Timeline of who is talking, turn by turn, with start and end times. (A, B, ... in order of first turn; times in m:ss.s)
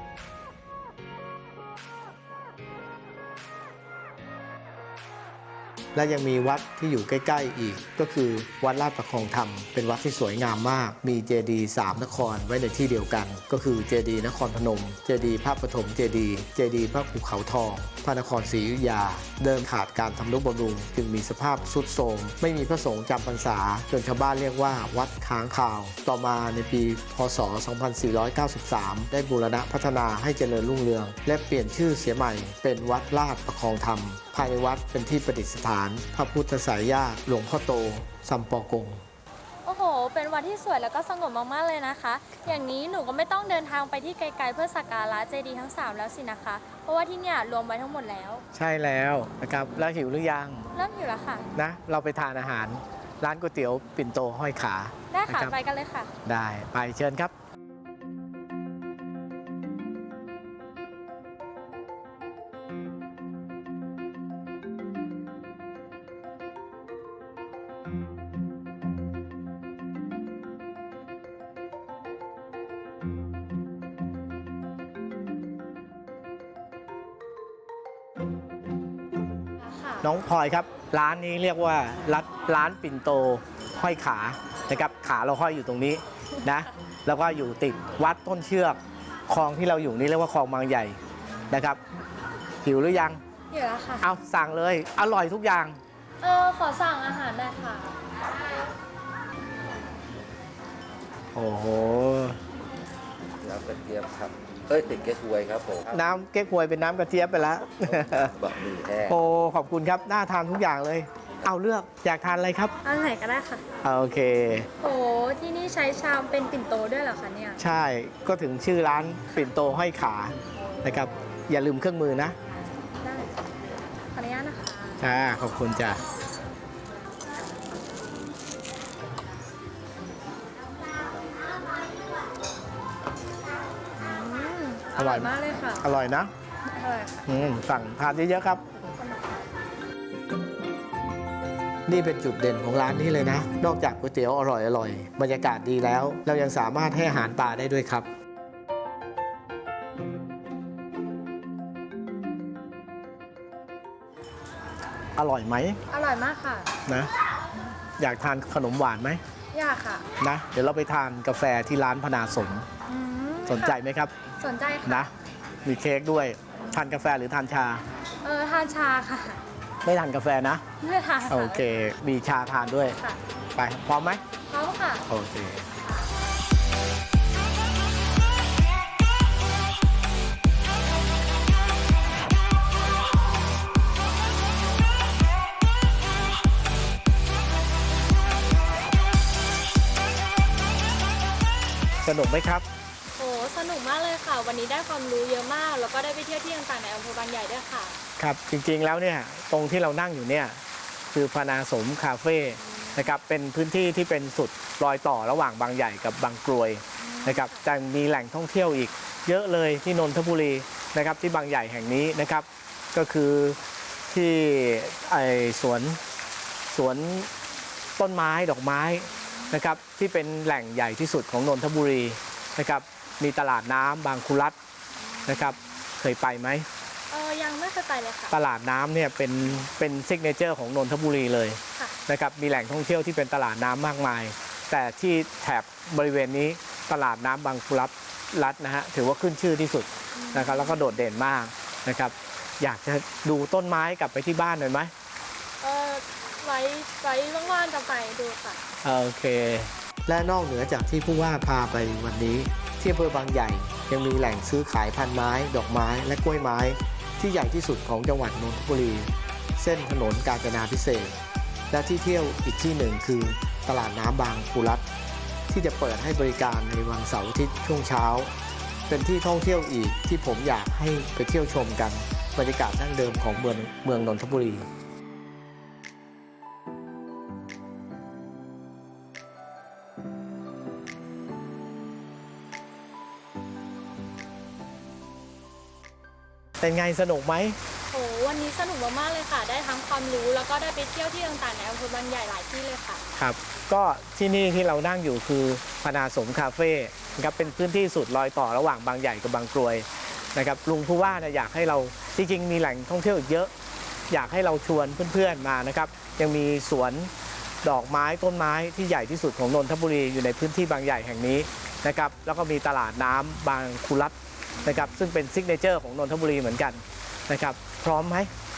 0:05.9-0:39.0 A
0:39.6-0:48.4 B
0:48.5-0:50.7 A
0:50.7-0:51.4 B
0:51.5-0:55.5 A
0:55.1-0:56.1 B
0:56.2-0:57.3 A
1:19.6-1:20.1 B
1:20.0-1:31.0 A
1:31.5-1:31.8 A
1:32.6-1:33.2 A
1:33.5-1:34.0 B
1:34.0-1:35.8 A
1:36.2-1:37.9 B
1:41.3-1:42.4 A
1:43.4-1:46.0 C
1:45.9-1:48.4 A
1:48.3-1:49.1 C
1:49.0-1:52.7 A
1:52.8-1:53.6 B
1:53.8-1:54.7 A
1:54.8-1:57.6 B
1:57.6-2:02.4 A
2:03.0-2:03.4 B
2:04.1-2:05.0 B
2:05.0-2:06.0 A
2:14.0-2:15.8 B
2:15.0-2:16.3 A
2:16.6-2:17.2 B
2:17.2-2:18.6 A
2:18.8-2:19.4 B
2:21.8-2:28.1 A
2:35.2-2:35.8 A
2:35.9-2:36.7 B
2:38.0-2:39.2 A
2:39.5-2:40.0 B
2:40.2-2:42.7 A
2:42.8-2:43.8 B
2:43.5-2:44.1 A
2:44.4-2:45.1 B
2:44.8-2:45.1 A
2:45.6-2:47.8 A
2:48.2-2:49.4 B
2:49.8-2:50.6 A
2:50.8-2:51.8 B
2:51.3-2:53.0 A
2:53.6-2:54.2 A
2:54.5-2:55.0 B
2:55.1-2:55.7 A
3:12.0-3:12.6 A
3:13.2-3:18.0 B
3:18.2-3:20.6 A
3:21.1-3:36.0 A
3:27.0-3:27.6 B
3:36.7-3:37.3 A
3:38.0-3:44.6 A
3:45.2-3:45.5 B
3:45.2-3:46.6 A
3:47.1-3:48.3 B
3:48.3-4:04.9 A
4:00.1-4:00.8 B
4:05.6-4:08.6 B
4:08.8-4:21.2 A
4:21.7-4:24.8 A
4:25.5-4:28.3 A
4:28.9-4:34.7 A
4:46.6-4:47.6 A
4:47.9-4:53.0 B
4:53.2-5:03.5 A
5:04.1-5:07.1 A
5:07.6-5:18.3 A